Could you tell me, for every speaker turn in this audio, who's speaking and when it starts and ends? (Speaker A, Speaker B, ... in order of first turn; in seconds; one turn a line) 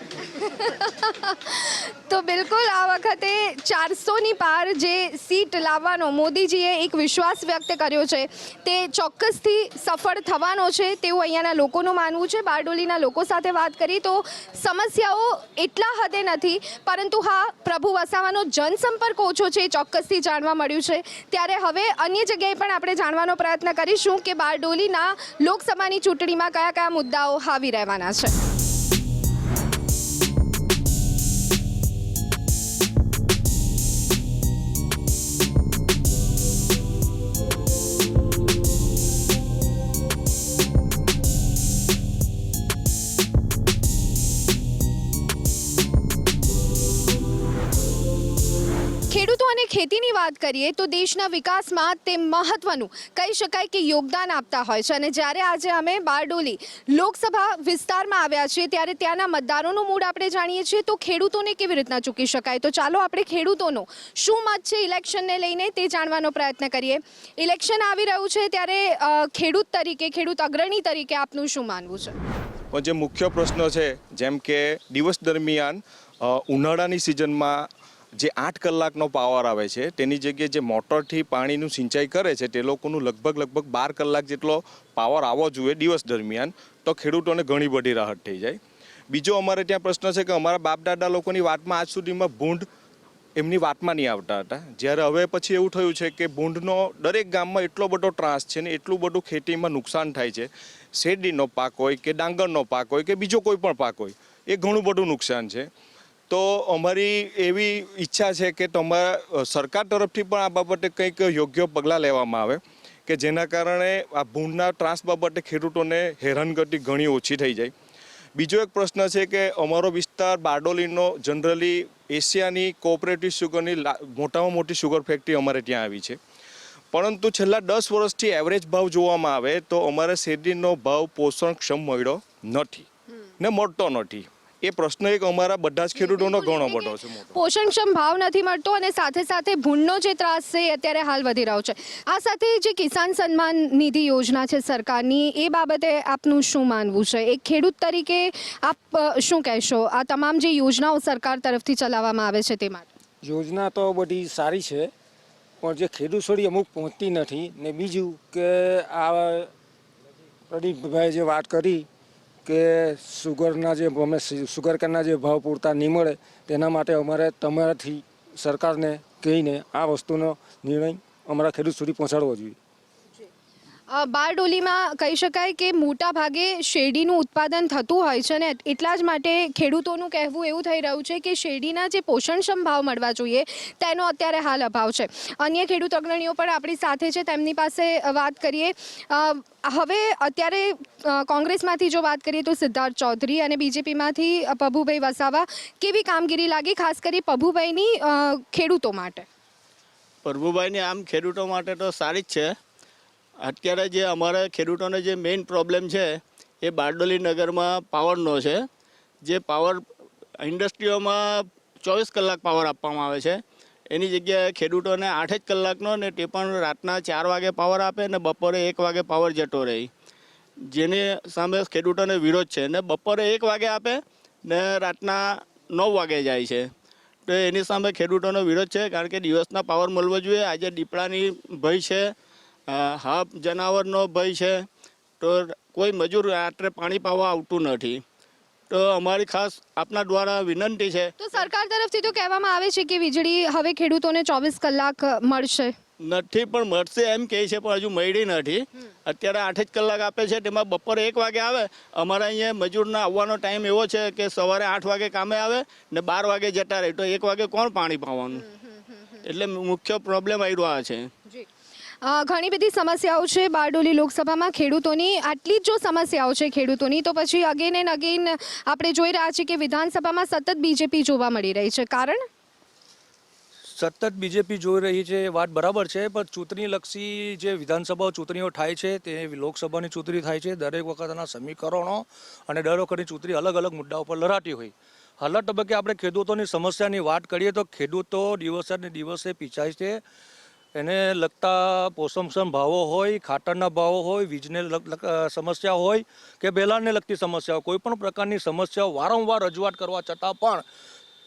Speaker A: 0.2-28.3
Speaker A: 49.1-72.1
Speaker B: 72.7-88.6
Speaker B: 89.1-92.7
Speaker B: 93.3-105.7
Speaker B: 106.3-117.7
Speaker B: 118.3-126.2
Speaker B: 126.9-132.9
Speaker B: 133.4-137.3
Speaker A: 135.9-152.8
Speaker C: 153.2-154.9
Speaker C: 155.6-159.5
Speaker C: 160.5-161.8
Speaker C: 162.4-172.6
Speaker A: 173.9-199.2
Speaker D: 200.2-202.5
Speaker D: 203.4-208.6
Speaker D: 209.2-209.8
Speaker D: 210.4-213.4
Speaker D: 213.9-219.9
Speaker D: 220.7-226.7
Speaker D: 227.3-232.1
Speaker D: 232.7-234.7
Speaker D: 235.2-238.0
Speaker D: 238.7-241.1
Speaker A: 241.2-245.7
Speaker D: 246.0-258.4
Speaker A: 258.4-259.2
Speaker D: 259.2-261.1
Speaker A: 262.0-272.2
Speaker E: 273.7-290.0
Speaker E: 290.7-300.6